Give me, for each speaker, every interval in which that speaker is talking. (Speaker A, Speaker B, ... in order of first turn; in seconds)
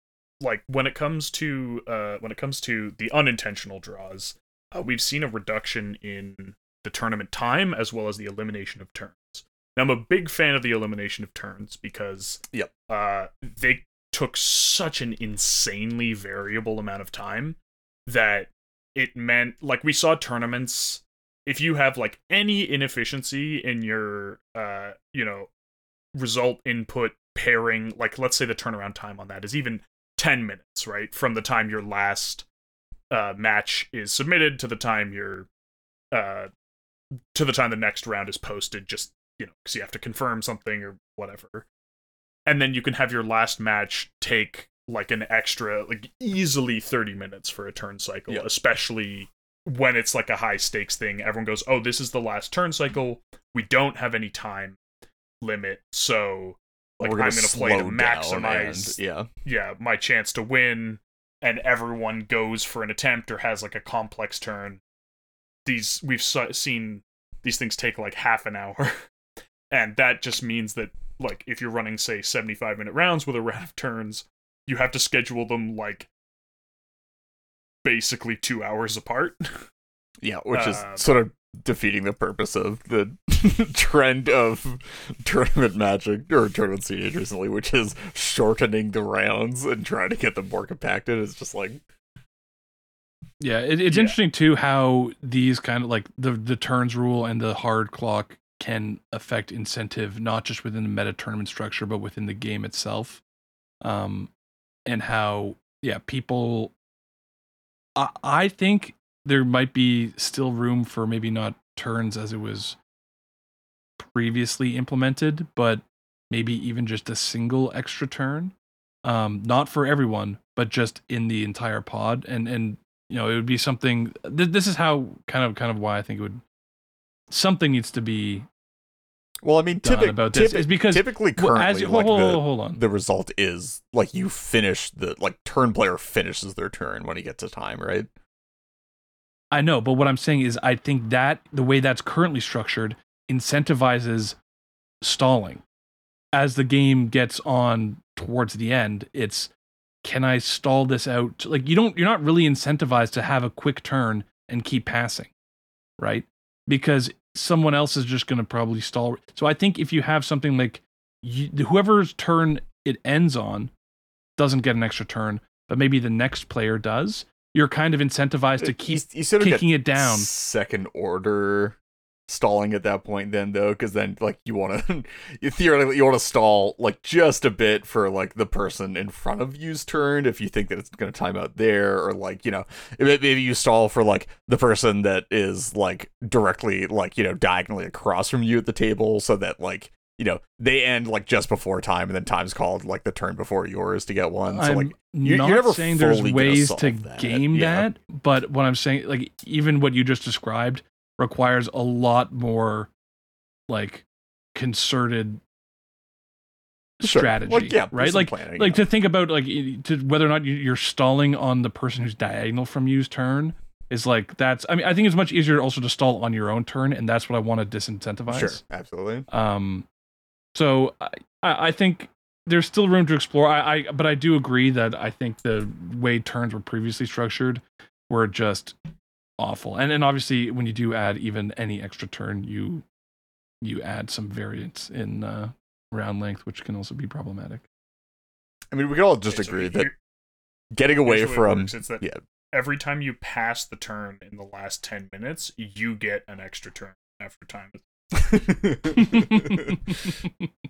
Speaker A: 0.4-25.5, 26.1-32.5, 33.1-35.5, 36.1-36.5, 37.3-41.7, 42.5-54.8, 55.4-64.8, 65.7-68.9, 69.7-76.1, 77.8-79.7, 80.5-81.2, 93.9-94.2, 239.3-240.0, 241.0-247.8
Speaker B: 57.0-59.3, 80.2-91.8, 129.4-138.1, 168.6-171.8, 172.3-197.9, 207.0-208.8, 218.3-219.3, 238.7-239.9, 240.7-242.2, 248.2-250.1
Speaker C: 93.4-103.2, 103.8-104.3, 104.9-106.7, 108.0-112.8, 114.0-126.4, 127.3-128.5, 129.8-132.8, 139.5-144.4, 145.0-145.6, 146.3-149.5, 150.0-155.3, 156.0-163.7, 164.4-170.3, 194.5-202.9, 203.7-205.4, 207.0-218.6, 219.3-219.9, 220.5-228.8, 229.4-232.8, 233.6-237.6, 249.0-249.8